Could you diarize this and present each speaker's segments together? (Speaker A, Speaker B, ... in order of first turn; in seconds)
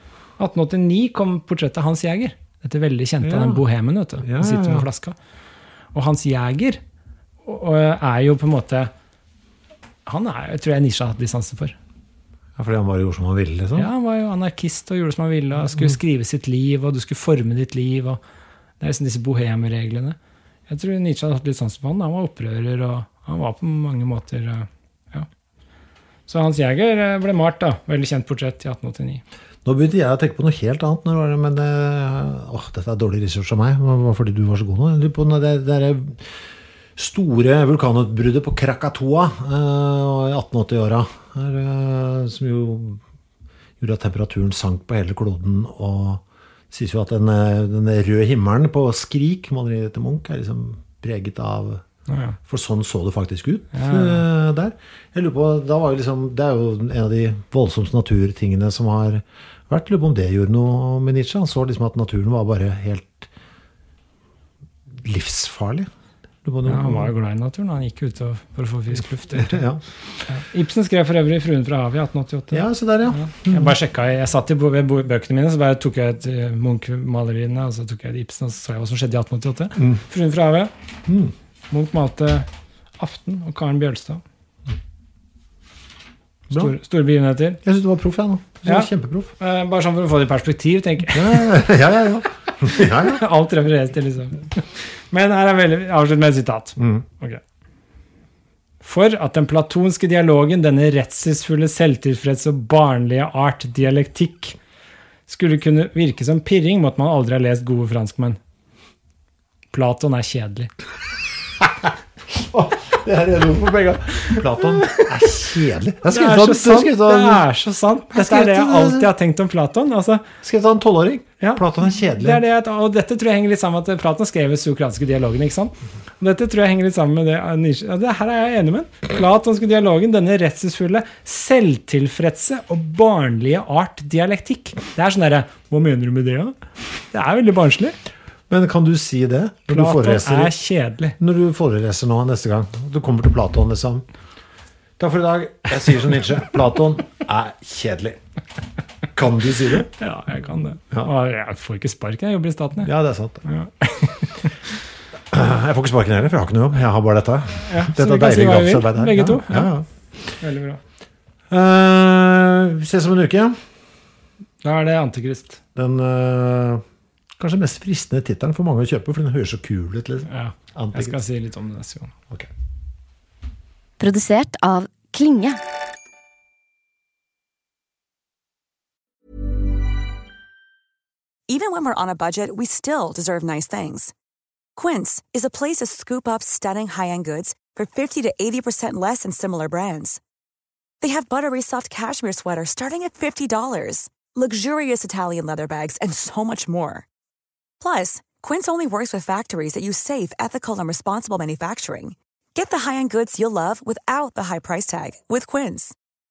Speaker A: 0.4-5.2, 5.9-6.8, 7.4-8.9, 10.1-11.8, 13.8-18.2, 18.8-20.2, 20.7-25.3, 26.3-29.2, 52.1-52.4, 53.7-54.2, 66.7-69.6, 70.3-80.7, 81.7-82.5, 83.0-84.2, 86.5-87.6, 88.7-91.5, 92.8-97.4, 98.8-104.6, 105.3-108.4, 109.7-110.7, 116.1-120.2, 122.2-136.6, 137.1-138.0, 139.7-141.2, 150.0-152.9, 153.4-154.5, 157.7-159.7, 160.4-160.8, 164.6-165.6, 170.3-172.1
Speaker B: 3.2-3.6, 4.2-4.9, 12.6-13.9, 29.6-36.2, 37.0-43.0, 43.8-51.8, 52.4-63.3, 65.0-65.9, 66.4-67.1, 69.3-69.8, 72.5-73.8, 79.8-80.0, 81.1-81.3, 86.5-86.8, 87.6-89.3, 91.1-93.2, 96.8-97.0, 111.6-117.5, 118.1-119.1, 120.4-122.4, 138.5-140.6, 141.2-144.1, 145.0-148.2, 149.2-149.9, 152.8-153.4, 155.3-159.9, 161.5-163.6, 165.8-166.8, 167.4-171.2
Speaker C: 174.0-175.6, 181.5-184.1, 184.8-190.2, 191.0-197.1, 197.8-205.9